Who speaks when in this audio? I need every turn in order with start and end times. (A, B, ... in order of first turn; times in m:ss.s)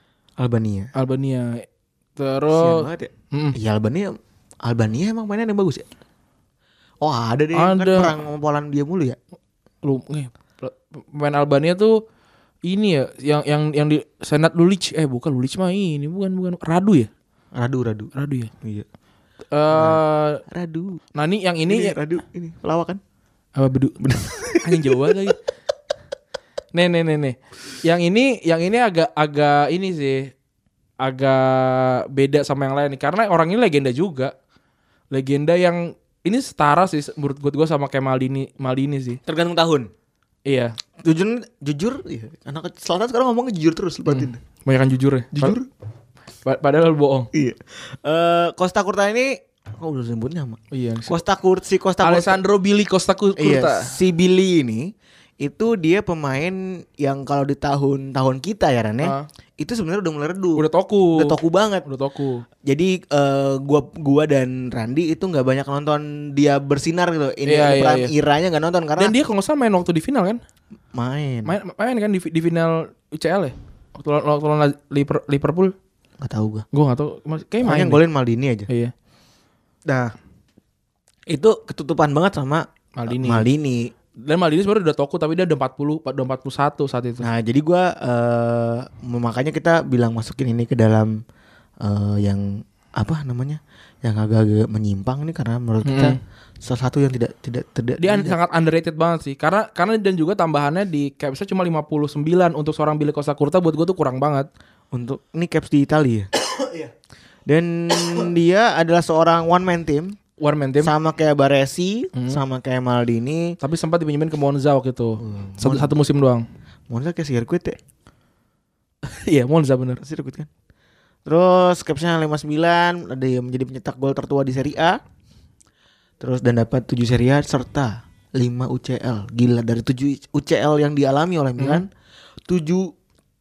0:00.4-0:00.9 A
0:01.0-0:03.6 B
0:02.5-0:05.9 A
0:07.0-0:09.2 A
0:07.6-0:08.2 B
0:09.8-0:12.0 B
0:12.7-0:17.1 B
0:17.6-0:18.9 A
0:18.2-0:18.5 B
0:19.5-0:20.4 B
0:19.7-0:21.0 A
0:21.2-0:22.0 B
0:21.7-0:23.0 A
0:23.6-0:24.0 B
0:24.0-0:25.0 A
0:24.6-0:25.4 B
0:26.7-0:30.3 B
0:31.0-0:34.3 B
0:35.1-0:39.2 B
0:39.3-0:39.9 A
0:40.5-0:40.8 B
0:41.0-0:44.4 A
0:44.1-0:45.6 B
0:45.3-0:45.7 A
0:46.4-0:47.3 B
0:47.3-0:52.4 A
0:50.7-0:51.2 B
0:52.0-0:53.9 B
0:53.4-1:01.9 A
1:00.6-1:02.4 B
1:02.6-1:09.2 A
1:07.5-1:08.1 B
1:09.0-1:10.4 B
1:10.9-1:11.6 A
1:11.5-1:15.7 B
1:16.2-1:16.6 A
1:16.7-1:18.0 B
1:17.6-1:18.7 A
1:19.9-1:20.1 A
1:21.3-1:23.9 A
1:23.0-1:23.5 B
1:24.2-1:27.3 B
1:27.2-1:31.1 A
1:31.8-1:38.4 A
1:35.8-1:36.2 B
1:38.0-1:44.5 B
1:44.9-1:46.9 A
1:47.5-1:50.2 A
1:50.4-1:50.9 B
1:50.8-1:53.6 A
1:52.2-1:52.4 B
1:53.6-1:56.4 B
1:55.2-1:55.9 A
1:56.9-1:57.8 A
1:59.1-2:00.0 B
2:00.0-2:00.5 A
2:01.3-2:05.0 A
2:06.2-2:11.9 A
2:11.6-2:11.8 B
2:12.5-2:12.9 A